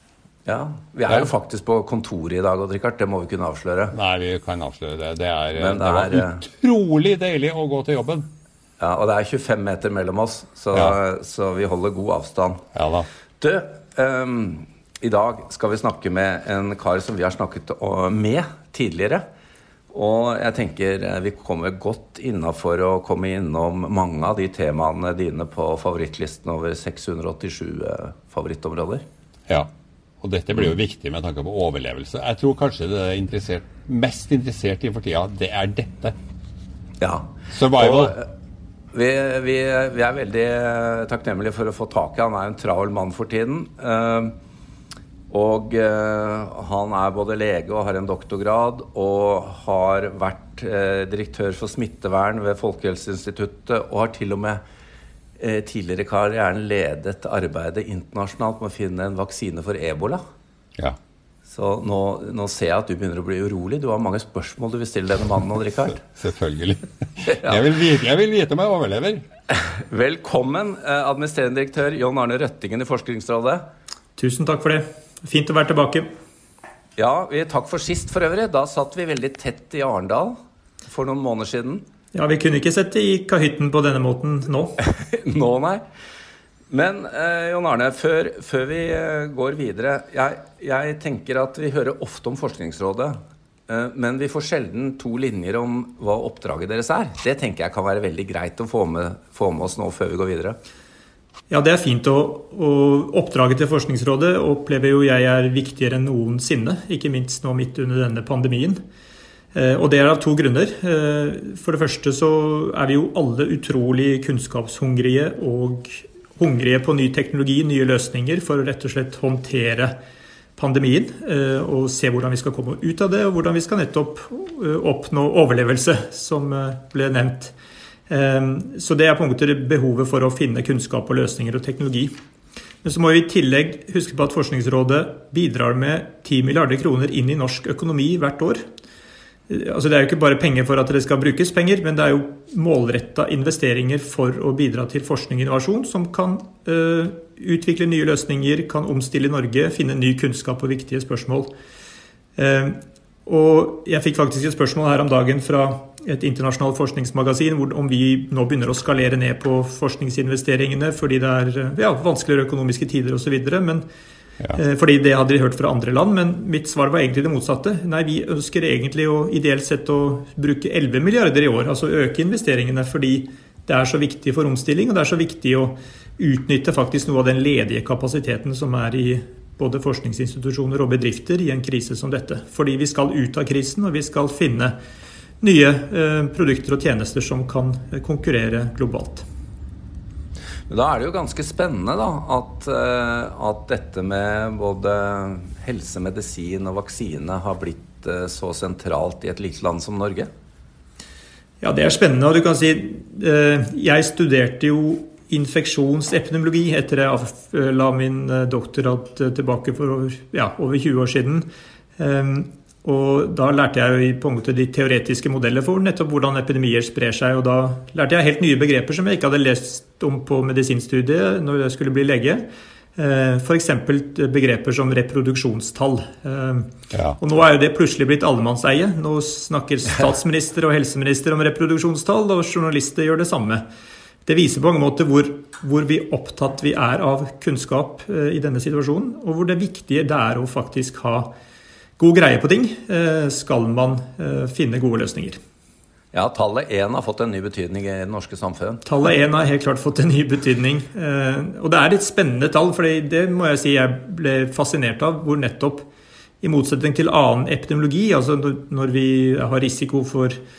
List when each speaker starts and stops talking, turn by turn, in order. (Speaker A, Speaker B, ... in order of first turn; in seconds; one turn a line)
Speaker A: 0.5-3.9
Speaker B: 3.9-8.3
Speaker A: 5.5-6.4
Speaker A: 8.8-12.6
Speaker B: 12.7-13.1
Speaker A: 13.4-19.2
Speaker A: 19.9-29.0
Speaker B: 30.2-36.1
Speaker A: 37.0-38.3
Speaker B: 37.5-38.2
Speaker A: 38.9-44.3
Speaker A: 45.3-54.6
Speaker A: 55.4-60.2
Speaker A: 61.5-66.0
Speaker B: 66.0-69.2
Speaker A: 69.9-73.6
Speaker C: 74.2-76.1
Speaker A: 77.0-80.3
Speaker A: 80.8-81.8
Speaker C: 82.1-84.8
Speaker A: 85.0-85.8
Speaker A: 86.7-93.2
Speaker A: 93.7-100.6
Speaker C: 101.5-108.8
Speaker C: 109.5-119.9
Speaker C: 120.6-127.5
Speaker C: 128.1-132.1
Speaker C: 132.8-138.6
Speaker C: 139.5-151.5
Speaker C: 152.4-163.8
Speaker C: 164.5-184.7
Speaker C: 185.4-189.2
Speaker A: 190.7-200.3
Speaker C: 201.6-211.4
Speaker C: 212.0-233.6
Speaker C: 234.2-241.3
Speaker C: 242.0-245.4
Speaker A: 246.1-248.8
Speaker C: 248.8-255.8
Speaker C: 256.4-260.4